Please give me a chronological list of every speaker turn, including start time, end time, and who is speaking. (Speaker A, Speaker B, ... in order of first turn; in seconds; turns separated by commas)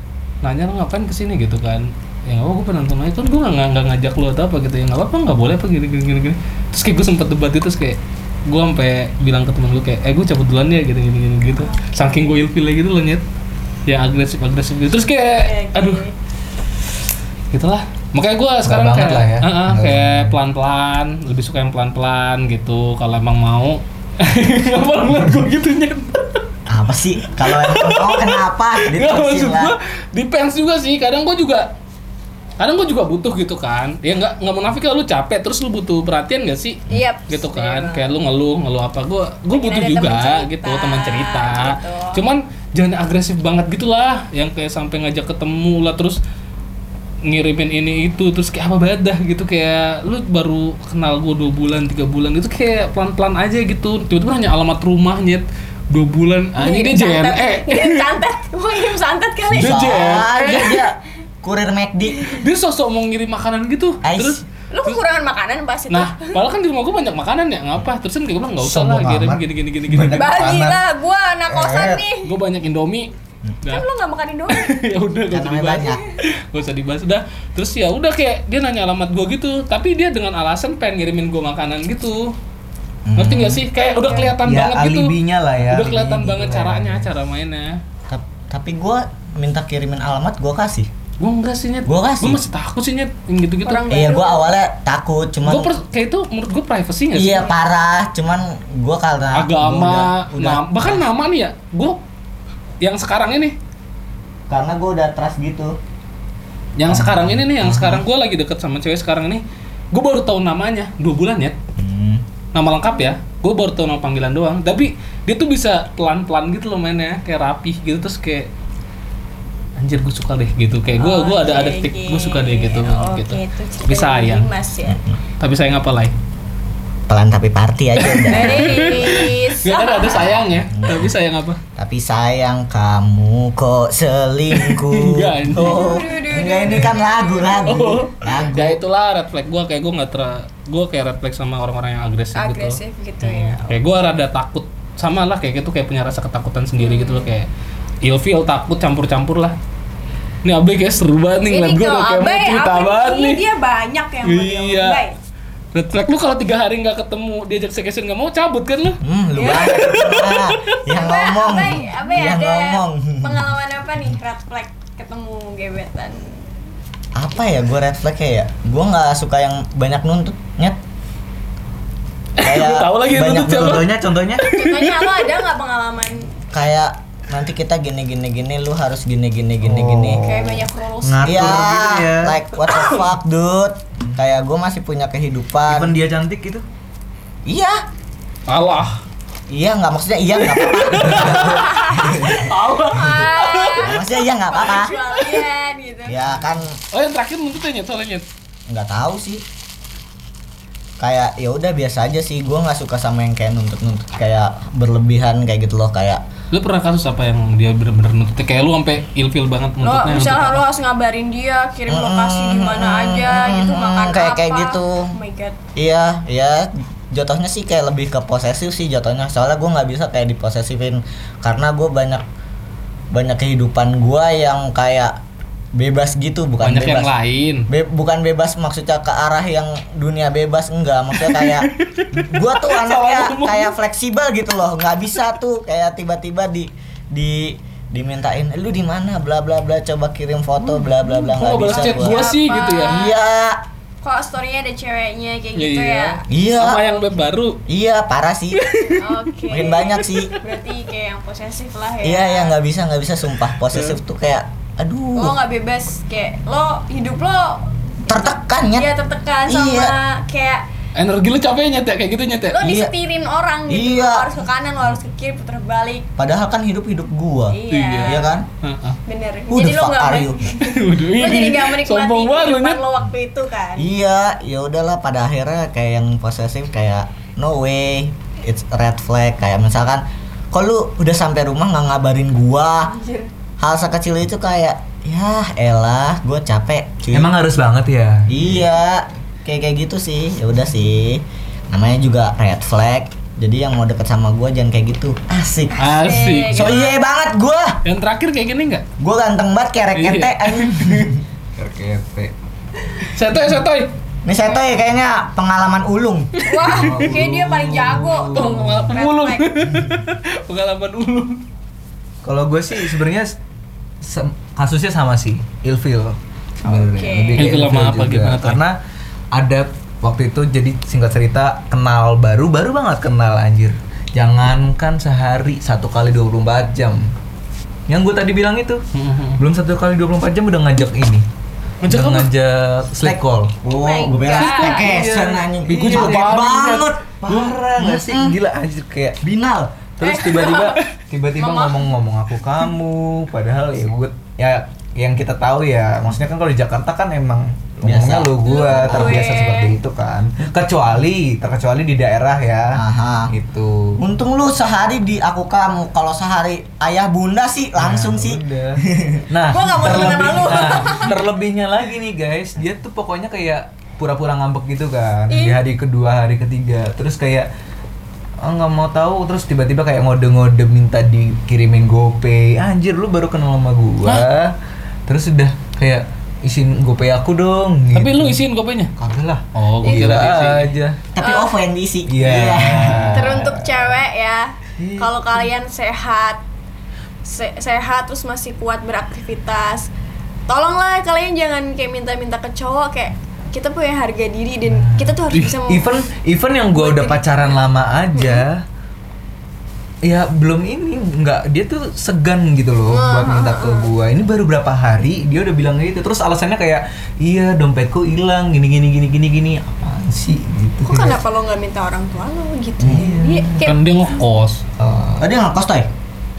Speaker A: 0.4-13.2, Speaker B: 11.6-12.3, Speaker A: 13.8-16.0, Speaker B: 15.3-16.1, Speaker A: 17.5-26.4, Speaker C: 18.6-20.4, Speaker D: 26.7-29.7, Speaker A: 27.3-31.7, Speaker A: 32.6-46.2, Speaker B: 36.9-38.1, Speaker B: 39.5-42.2, Speaker A: 47.2-58.1, Speaker B: 56.5-60.0, Speaker D: 59.5-62.2, Speaker A: 59.5-60.9, Speaker A: 62.3-65.0, Speaker D: 64.0-64.4, Speaker B: 64.7-66.4, Speaker A: 65.9-70.3, Speaker C: 68.5-70.6, Speaker D: 70.0-70.7, Speaker B: 70.1-72.3, Speaker D: 71.5-72.0, Speaker A: 72.2-73.1, Speaker B: 73.6-74.7, Speaker A: 74.5-82.3, Speaker D: 75.3-76.0, Speaker D: 83.0-83.6, Speaker A: 83.2-87.8, Speaker C: 84.1-87.1, Speaker D: 88.1-90.9, Speaker A: 91.2-93.8, Speaker D: 91.8-92.4, Speaker B: 93.6-94.5, Speaker D: 93.9-95.7, Speaker A: 95.5-97.5, Speaker D: 97.1-101.0, Speaker A: 99.3-102.0, Speaker A: 102.8-103.5, Speaker D: 104.5-105.8, Speaker A: 106.8-111.5, Speaker D: 107.6-108.0, Speaker D: 111.8-112.2, Speaker A: 112.5-118.5, Speaker A: 119.8-124.5, Speaker B: 121.0-125.0, Speaker A: 125.4-126.1, Speaker D: 127.1-128.8, Speaker A: 128.0-131.6, Speaker B: 128.3-130.4, Speaker D: 130.7-131.1, Speaker D: 131.8-138.8, Speaker A: 134.5-135.9, Speaker B: 135.6-137.8, Speaker A: 137.6-147.5, Speaker B: 142.3-143.8, Speaker B: 146.8-147.3, Speaker A: 148.0-149.6, Speaker A: 150.4-153.4, Speaker B: 151.5-155.2, Speaker A: 154.2-155.0, Speaker A: 155.7-160.8, Speaker D: 159.0-163.5, Speaker B: 159.3-160.2, Speaker B: 160.9-166.4, Speaker D: 167.1-170.8, Speaker A: 172.4-175.3, Speaker D: 172.4-173.8, Speaker C: 173.2-174.4, Speaker B: 174.4-176.3, Speaker D: 176.5-180.2, Speaker C: 179.6-182.4, Speaker B: 180.2-181.7, Speaker D: 181.2-185.9, Speaker A: 182.7-183.0, Speaker C: 185.7-186.6, Speaker D: 187.4-187.8, Speaker A: 188.5-189.0, Speaker D: 189.5-192.5, Speaker A: 190.4-191.6, Speaker C: 191.1-191.3, Speaker B: 191.4-196.2, Speaker A: 192.2-194.0, Speaker D: 193.8-194.9, Speaker D: 196.1-196.8, Speaker A: 196.9-198.2, Speaker D: 198.7-199.4, Speaker D: 201.0-206.2, Speaker A: 206.5-210.6, Speaker B: 209.8-215.6, Speaker D: 211.9-215.1, Speaker D: 215.8-222.2, Speaker D: 223.1-225.2, Speaker D: 225.7-227.1, Speaker A: 226.6-227.7, Speaker D: 227.7-242.2, Speaker A: 231.2-233.7, Speaker A: 241.2-243.1, Speaker B: 241.7-243.1, Speaker D: 242.8-243.6, Speaker B: 244.0-246.2, Speaker A: 245.6-247.6, Speaker D: 246.3-246.8, Speaker D: 247.7-248.7, Speaker A: 248.5-249.2, Speaker B: 248.9-252.6, Speaker D: 249.5-250.3, Speaker A: 249.9-250.5, Speaker D: 252.0-255.3, Speaker A: 253.6-254.0, Speaker B: 255.1-260.6, Speaker D: 258.1-258.9, Speaker D: 259.5-259.9, Speaker A: 260.9-262.7, Speaker B: 262.5-266.1, Speaker D: 262.6-262.9, Speaker D: 263.7-264.3, Speaker D: 266.2-268.5, Speaker B: 267.5-268.4, Speaker A: 267.7-269.0, Speaker B: 269.1-273.9, Speaker D: 269.5-270.5, Speaker A: 270.6-272.8, Speaker D: 273.8-282.9, Speaker B: 282.9-283.3, Speaker D: 283.6-287.3, Speaker C: 287.1-288.7, Speaker D: 288.3-295.7, Speaker B: 295.7-296.9, Speaker A: 295.8-296.8, Speaker D: 296.5-297.8, Speaker A: 297.8-298.8, Speaker D: 299.0-301.2, Speaker A: 299.9-301.1, Speaker C: 301.6-302.3, Speaker A: 303.0-303.9, Speaker D: 304.2-306.7, Speaker B: 306.4-309.5, Speaker C: 306.6-309.0, Speaker A: 308.3-311.4, Speaker C: 312.2-313.4, Speaker A: 312.8-313.0, Speaker C: 314.0-318.8, Speaker B: 316.6-317.5, Speaker A: 317.4-318.6, Speaker C: 319.3-327.1, Speaker C: 327.9-328.8, Speaker A: 328.9-329.4, Speaker C: 329.4-331.2, Speaker A: 331.8-332.3, Speaker C: 331.9-333.5, Speaker D: 333.0-338.4, Speaker B: 333.7-334.9, Speaker A: 334.3-336.9, Speaker C: 335.6-336.6, Speaker C: 337.2-339.2, Speaker D: 339.2-339.8, Speaker C: 340.0-354.0, Speaker B: 340.0-341.9, Speaker D: 347.8-349.3, Speaker B: 348.4-349.7, Speaker D: 352.7-353.3, Speaker D: 354.0-360.8, Speaker C: 357.8-367.5, Speaker B: 359.5-361.1, Speaker B: 365.3-365.6, Speaker C: 368.4-374.6, Speaker C: 375.1-378.4, Speaker A: 377.9-378.9, Speaker C: 379.0-381.0, Speaker A: 379.5-380.7, Speaker D: 381.1-383.4, Speaker B: 381.2-381.5, Speaker C: 382.1-383.9, Speaker B: 383.1-386.4, Speaker C: 384.8-385.2, Speaker B: 387.2-389.9, Speaker B: 390.5-395.9, Speaker C: 394.7-398.6, Speaker B: 396.7-397.2, Speaker B: 398.1-398.4, Speaker C: 400.0-411.2, Speaker B: 402.9-403.9, Speaker B: 410.8-413.8, Speaker D: 412.8-413.1, Speaker C: 412.8-413.6, Speaker A: 413.6-414.6, Speaker C: 414.8-415.3, Speaker D: 415.2-415.9